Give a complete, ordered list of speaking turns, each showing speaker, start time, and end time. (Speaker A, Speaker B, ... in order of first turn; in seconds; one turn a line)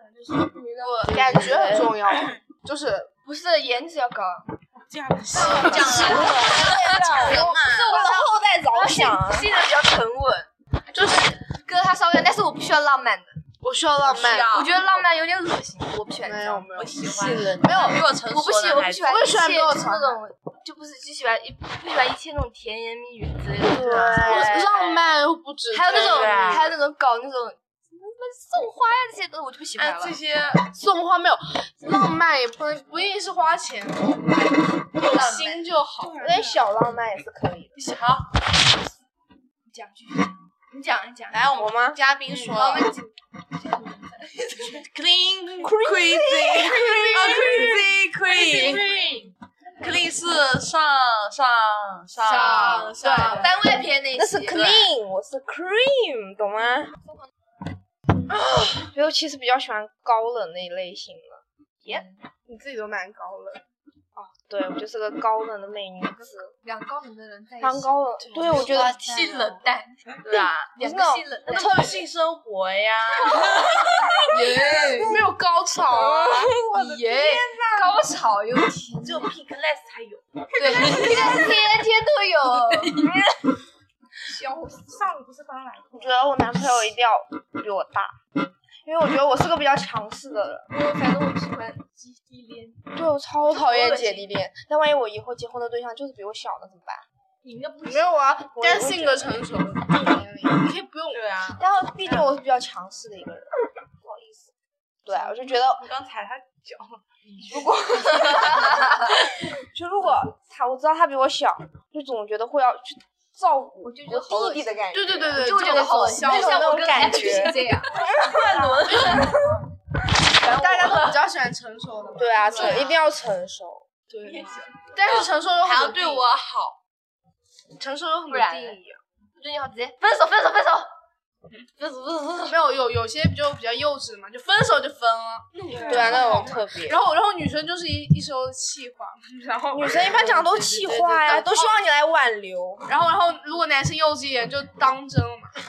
Speaker A: 0.3-1.9
Speaker B: 0.9-3.1
Speaker C: 1.1-1.8
Speaker A: 3.2-4.5
Speaker D: 4.9-5.8
Speaker B: 5.2-7.3
Speaker E: 5.3-8.1
Speaker A: 5.3-10.5
Speaker C: 5.7-9.5
Speaker B: 10.9-11.4
Speaker A: 11.4-13.4
Speaker B: 13.6-14.6
Speaker E: 14.0-14.9
Speaker A: 14.5-16.7
Speaker B: 16.2-18.0
Speaker E: 16.7-19.3
Speaker A: 17.8-25.0
Speaker B: 19.0-20.2
Speaker E: 23.7-24.8
Speaker C: 23.7-24.5
Speaker B: 24.2-26.6
Speaker A: 25.7-30.2
Speaker E: 25.9-26.7
Speaker E: 29.8-30.7
Speaker B: 30.7-36.3
Speaker A: 35.0-35.6
Speaker D: 36.2-36.5
Speaker C: 36.2-37.8
Speaker E: 37.8-38.3
Speaker A: 39.7-41.5
Speaker E: 41.3-42.9
Speaker C: 41.6-42.0
Speaker A: 42.3-43.1
Speaker A: 43.6-44.8
Speaker E: 44.6-48.9
Speaker C: 45.6-47.7
Speaker B: 47.0-47.6
Speaker A: 48.3-49.3
Speaker E: 49.8-53.3
Speaker A: 52.2-54.6
Speaker B: 52.2-53.5
Speaker C: 52.5-53.5
Speaker C: 54.1-56.9
Speaker E: 54.5-54.9
Speaker C: 58.7-62.0
Speaker A: 61.8-62.2
Speaker B: 62.5-63.6
Speaker C: 64.2-66.5
Speaker A: 66.6-70.0
Speaker C: 67.6-69.5
Speaker E: 70.2-70.7
Speaker A: 70.8-72.0
Speaker C: 70.8-71.8
Speaker E: 71.5-74.6
Speaker A: 74.3-75.3
Speaker B: 75.0-76.6
Speaker C: 76.0-78.0
Speaker A: 76.1-79.3
Speaker E: 79.0-81.6
Speaker A: 80.5-83.1
Speaker C: 80.7-81.4
Speaker A: 84.3-85.0
Speaker D: 84.7-86.2
Speaker C: 85.9-88.2
Speaker C: 88.8-90.7
Speaker A: 90.7-92.8
Speaker C: 92.9-97.0
Speaker A: 93.5-94.3
Speaker A: 97.4-98.2
Speaker B: 97.8-101.3
Speaker C: 98.5-99.4
Speaker E: 101.1-102.3
Speaker C: 101.5-103.5
Speaker C: 104.0-104.5
Speaker C: 105.0-105.9
Speaker E: 105.1-108.9
Speaker A: 107.6-109.2
Speaker C: 109.6-119.3
Speaker A: 113.8-118.1
Speaker B: 114.9-117.0
Speaker B: 118.0-119.5
Speaker E: 118.0-119.3
Speaker D: 118.3-118.8
Speaker A: 118.9-119.5
Speaker A: 120.3-121.2
Speaker B: 120.5-122.9
Speaker C: 122.2-124.0
Speaker A: 122.5-122.9
Speaker E: 122.5-122.9
Speaker B: 124.2-126.3
Speaker A: 124.2-124.6
Speaker E: 125.1-126.8
Speaker B: 127.8-129.0
Speaker A: 128.3-128.8
Speaker A: 129.4-130.9
Speaker E: 131.8-132.6
Speaker B: 132.5-141.8
Speaker D: 135.7-136.5
Speaker C: 135.9-137.0
Speaker C: 139.7-142.9
Speaker B: 142.8-145.5